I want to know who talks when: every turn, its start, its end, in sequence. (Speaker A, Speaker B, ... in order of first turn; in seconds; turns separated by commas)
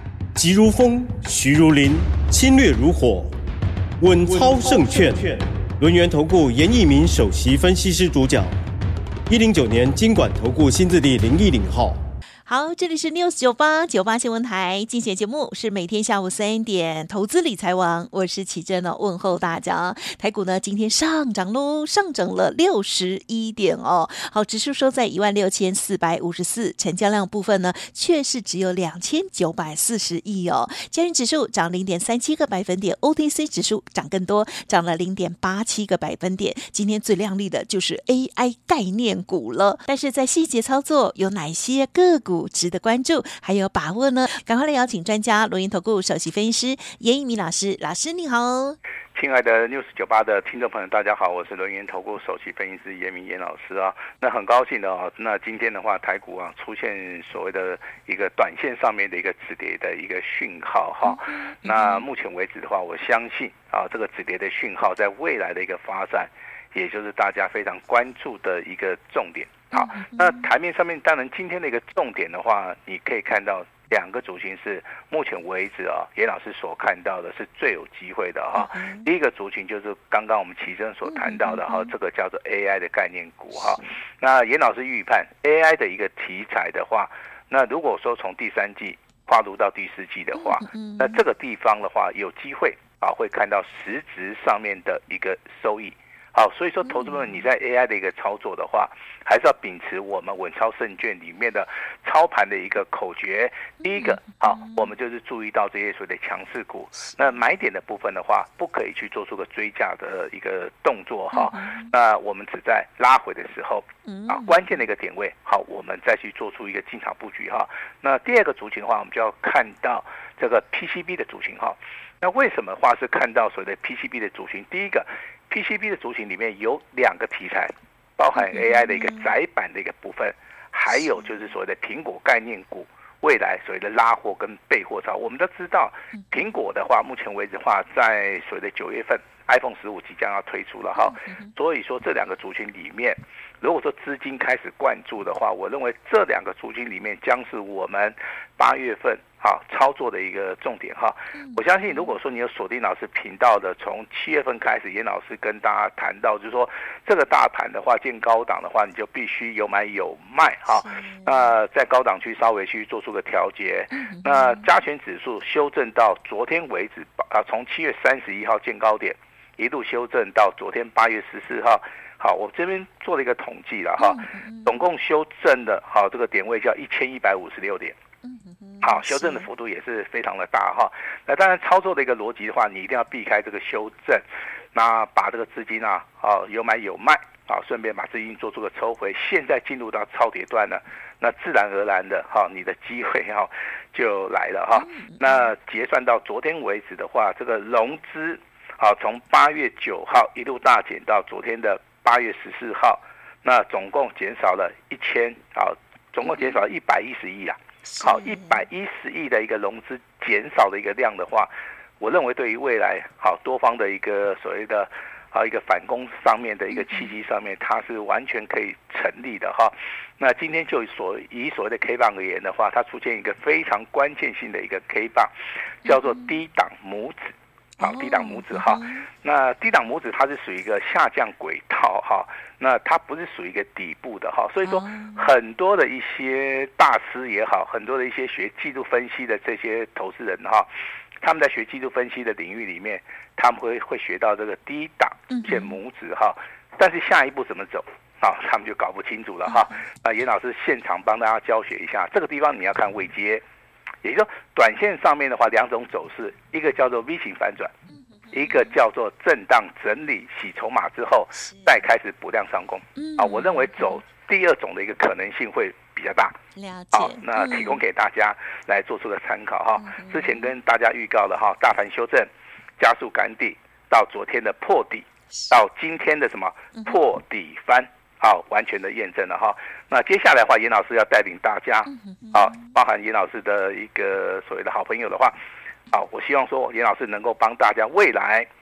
Speaker A: 0.4-3.3, Speaker A: 4.0-8.6, Speaker A: 9.3-12.0, Speaker B: 12.5-48.8, Speaker C: 49.1-178.0, Speaker B: 61.0-62.1, Speaker B: 69.7-70.5, Speaker B: 78.5-79.1, Speaker B: 81.1-81.9, Speaker B: 90.3-91.2, Speaker B: 96.8-97.5, Speaker B: 103.8-104.9, Speaker B: 111.3-111.9, Speaker B: 114.0-114.8, Speaker B: 128.3-129.3, Speaker B: 131.0-131.3, Speaker B: 140.9-141.5, Speaker B: 151.3-152.2, Speaker B: 160.7-161.5, Speaker B: 163.9-164.7, Speaker B: 174.0-174.9, Speaker B: 178.2-179.5, Speaker C: 178.8-225.3, Speaker B: 194.7-195.5, Speaker B: 206.2-206.6, Speaker B: 207.9-208.7, Speaker B: 216.7-217.1, Speaker C: 225.8-240.7, Speaker B: 225.8-226.3, Speaker B: 227.8-229.1, Speaker B: 234.6-235.3, Speaker C: 241.2-253.4, Speaker B: 245.3-245.8, Speaker B: 249.4-249.7, Speaker C: 254.0-257.7, Speaker B: 258.3-258.8, Speaker C: 258.3-266.4, Speaker B: 261.4-261.8, Speaker B: 263.0-264.0, Speaker B: 266.6-267.8, Speaker C: 266.9-285.4, Speaker B: 269.7-270.5, Speaker B: 275.3-275.6, Speaker B: 276.8-277.0, Speaker B: 281.9-282.8, Speaker C: 285.9-288.5